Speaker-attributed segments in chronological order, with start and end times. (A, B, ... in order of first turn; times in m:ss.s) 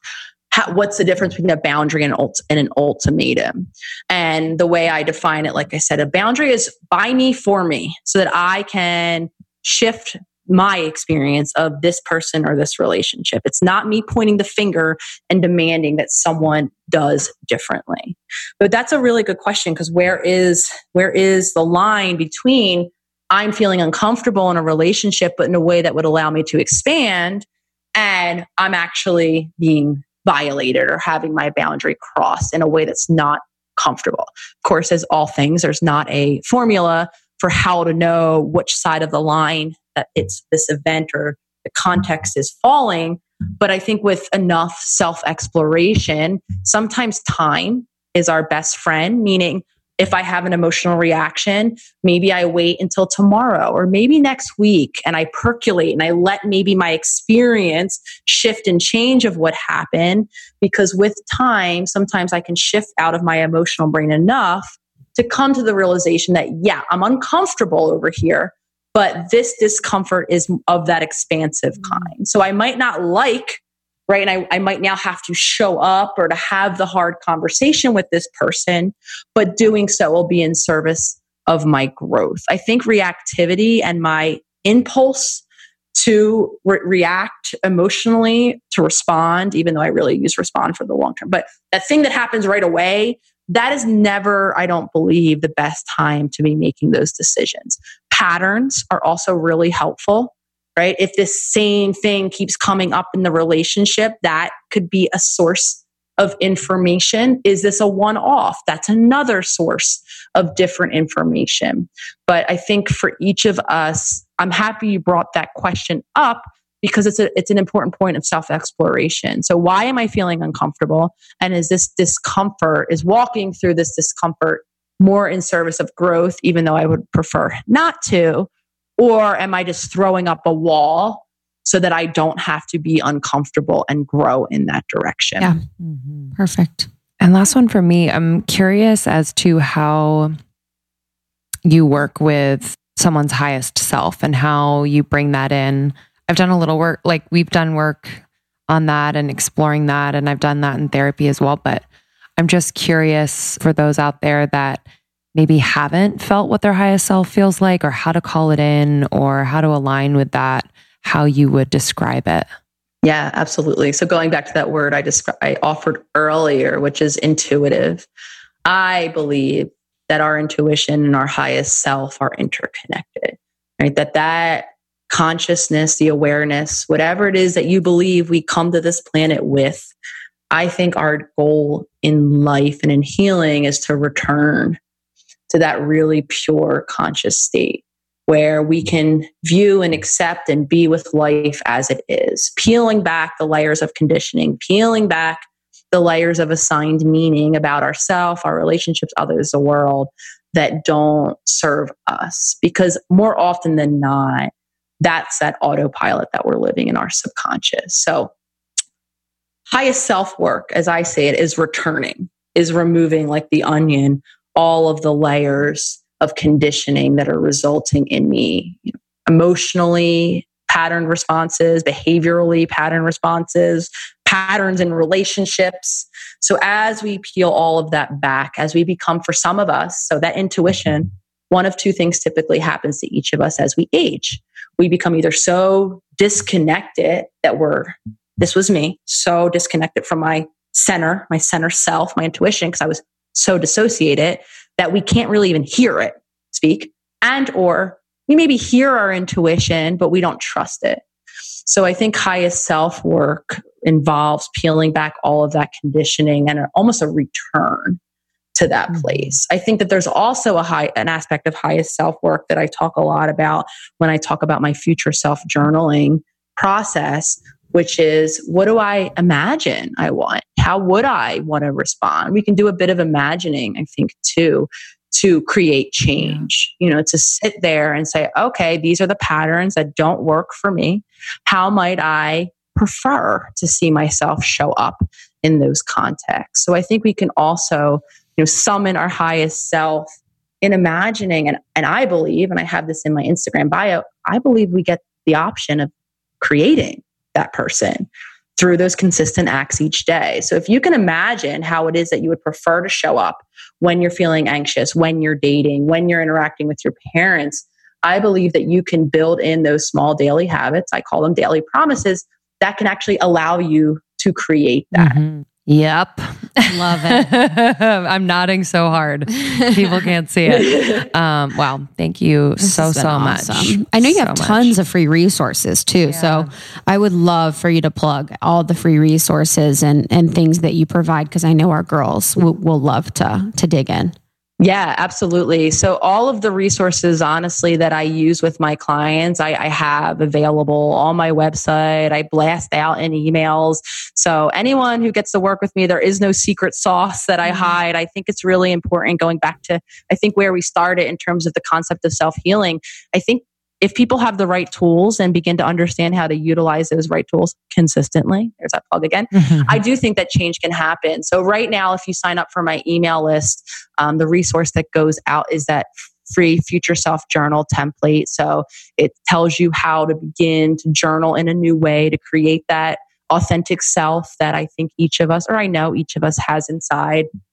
0:00.5-1:25.4 A
1:26.0-2:15.5 A
2:15.8-2:16.3 B
2:16.4-2:16.9 C
2:17.2-2:20.4 B
2:21.6-2:31.8 B
2:32.4-2:34.8 B
2:35.3-2:42.4 B
2:43.0-2:48.0 A
2:48.6-2:59.9 A
3:00.5-3:04.8 A
3:05.5-3:28.3 A
3:29.7-4:11.0 A
4:11.7-4:18.0 A
4:18.5-4:50.1 A
4:18.9-4:19.3 B
4:50.6-4:55.9 A
4:56.4-4:58.1 A
4:58.6-5:15.2 A
5:14.9-5:24.7 B
5:16.7-5:17.3 C
5:20.5-5:21.0 A
5:22.6-5:34.1 C
5:26.1-5:26.5 B
5:34.6-6:17.3 A
5:59.3-5:59.8 B